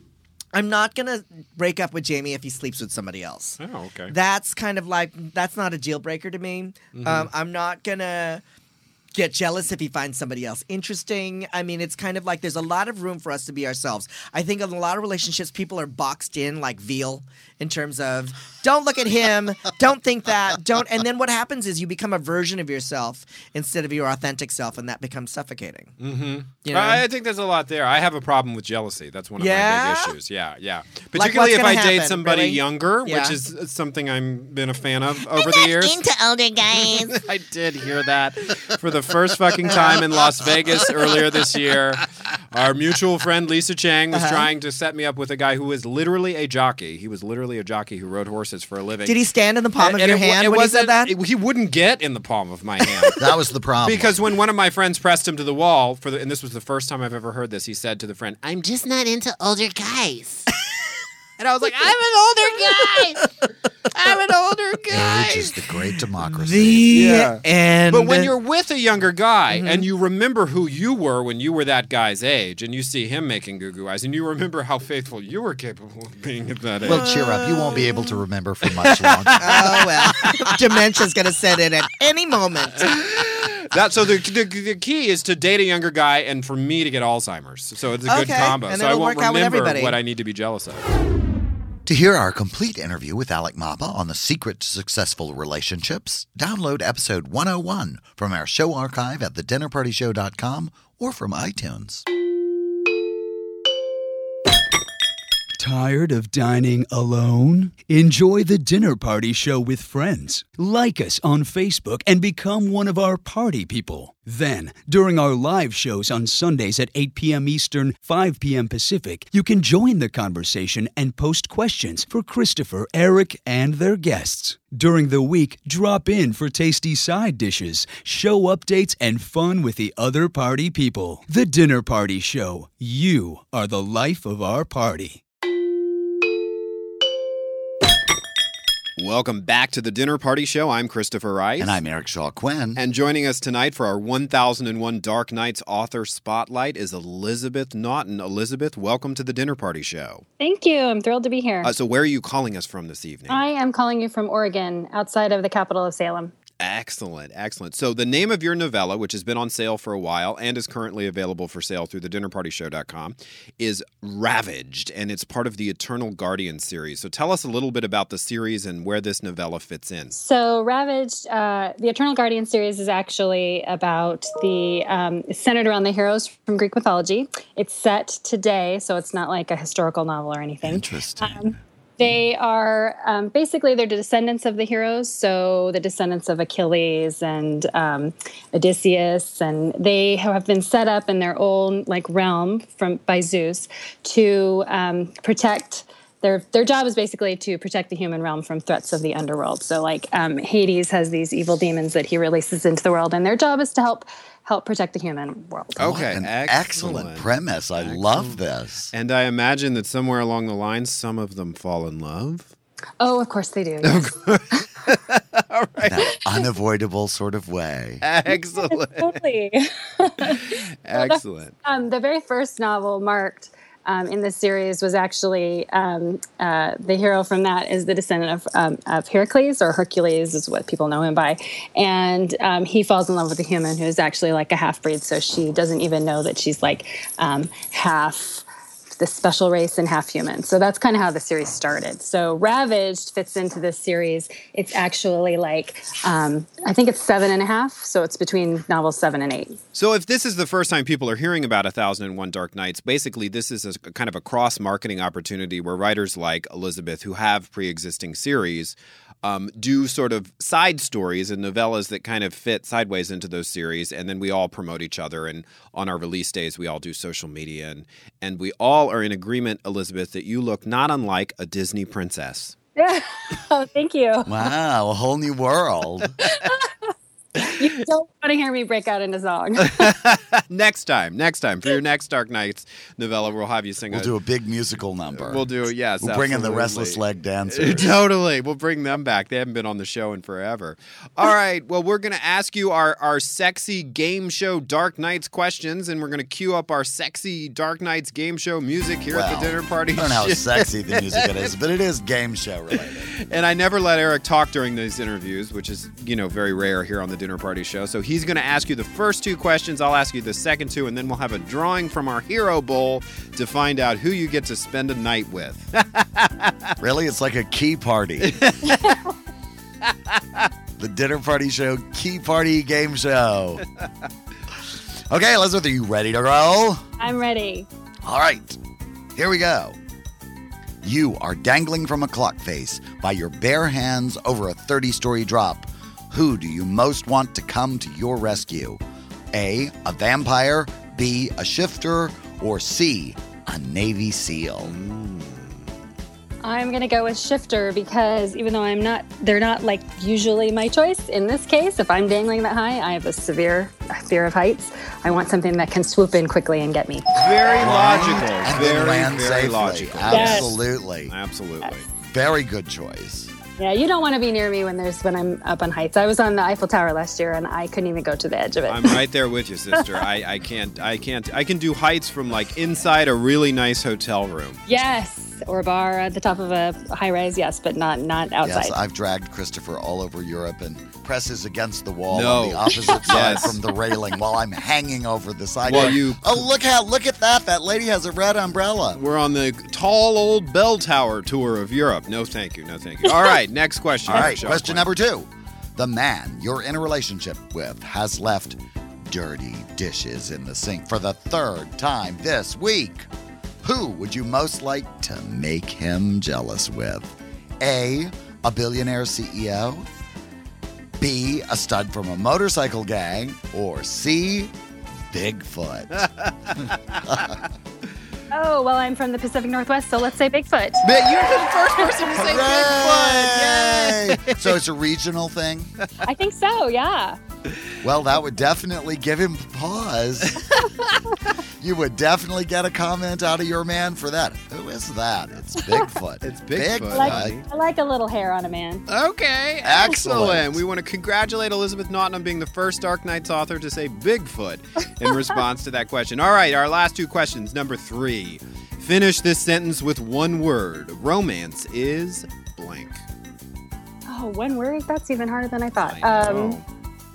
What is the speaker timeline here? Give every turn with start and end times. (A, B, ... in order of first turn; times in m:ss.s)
0:00.5-0:03.6 A
0:03.6-0:04.1 B
0:04.1-0:08.4 A
0:06.9-0:07.3 B
0:09.1-0:25.9 A
0:26.0-0:36.0 B
0:26.6-0:27.0 A
0:29.4-0:30.1 A
0:31.2-0:33.4 A
0:35.3-0:37.2 C
0:36.8-0:49.2 B
0:39.7-0:40.1 A
0:44.1-0:44.5 A
0:49.0-0:51.1 A
0:49.8-0:53.2 B
0:53.2-0:54.3 D
0:53.8-0:58.5 B
0:58.4-1:00.5 C
1:01.4-1:02.8 B
1:02.0-1:03.2 C
1:04.1-1:04.7 C
1:04.8-1:05.4 B
1:04.9-1:07.0 D
1:06.2-1:08.3 A
1:06.9-1:17.8 B
1:09.5-1:09.9 A
1:16.8-1:19.8 D
1:16.9-1:17.9 A
1:18.6-1:20.6 B
1:19.4-1:22.9 A
1:22.8-1:30.8 B
1:28.0-1:30.0 A
1:31.9-1:42.0 D
1:45.6-2:15.2 E
2:19.0-2:21.7 B
2:21.6-2:22.8 D
2:22.8-2:30.2 B
2:30.4-2:31.7 F
2:31.6-2:33.4 B
2:33.3-2:36.3 F
2:36.6-2:50.2 B
2:50.1-3:26.0 F
3:00.6-3:01.6 D
3:25.8-3:28.4 B
3:25.8-3:28.9 D
3:28.9-3:32.5 B
3:33.0-3:34.1 F
3:33.8-3:36.0 B
3:35.8-3:38.0 D
3:38.0-3:39.2 B
3:38.3-3:58.4 F
3:40.2-3:41.5 B
3:59.0-4:09.6 F
4:09.7-4:32.5 B
4:32.8-4:34.3 F
4:34.2-4:36.1 D
4:36.3-4:36.6 F
4:37.4-4:39.9 F
4:39.7-4:44.1 B
4:43.9-4:48.0 D
4:45.2-5:01.5 B
4:59.1-5:03.2 D
5:03.2-5:16.5 B
5:16.8-5:18.4 D
5:18.2-5:19.0 B
5:20.8-5:23.6 D
5:25.1-5:26.8 D
5:27.0-5:27.7 F
5:28.0-5:28.6 D
5:29.1-5:29.8 D
5:30.8-5:38.8 D
5:39.3-5:44.7 D
5:44.6-5:45.5 B
5:46.4-5:57.1 F
5:57.2-6:01.9 B
5:57.6-6:01.1 D
6:00.1-6:00.5 F
6:02.1-6:03.3 D
6:03.6-6:09.0 F
6:08.7-6:14.6 B
6:14.7-6:18.8 F
6:18.4-6:29.0 D
6:22.1-6:23.6 B
6:25.6-6:26.4 B
6:28.9-6:34.9 B
6:34.1-6:43.1 D
6:43.6-6:49.9 D
6:51.0-6:54.5 D
6:55.1-6:57.4 D
6:56.3-6:57.0 B
6:58.3-7:00.9 F
7:00.8-7:04.5 B
7:02.1-7:05.7 D
7:06.0-7:07.2 F
7:07.8-7:10.5 D
7:10.4-7:10.8 B
7:11.6-7:17.4 D
7:16.2-7:17.4 B
7:16.9-7:18.8 F
7:18.9-7:33.0 B
7:19.6-7:20.6 D
7:34.1-7:36.6 F
7:35.8-7:36.6 B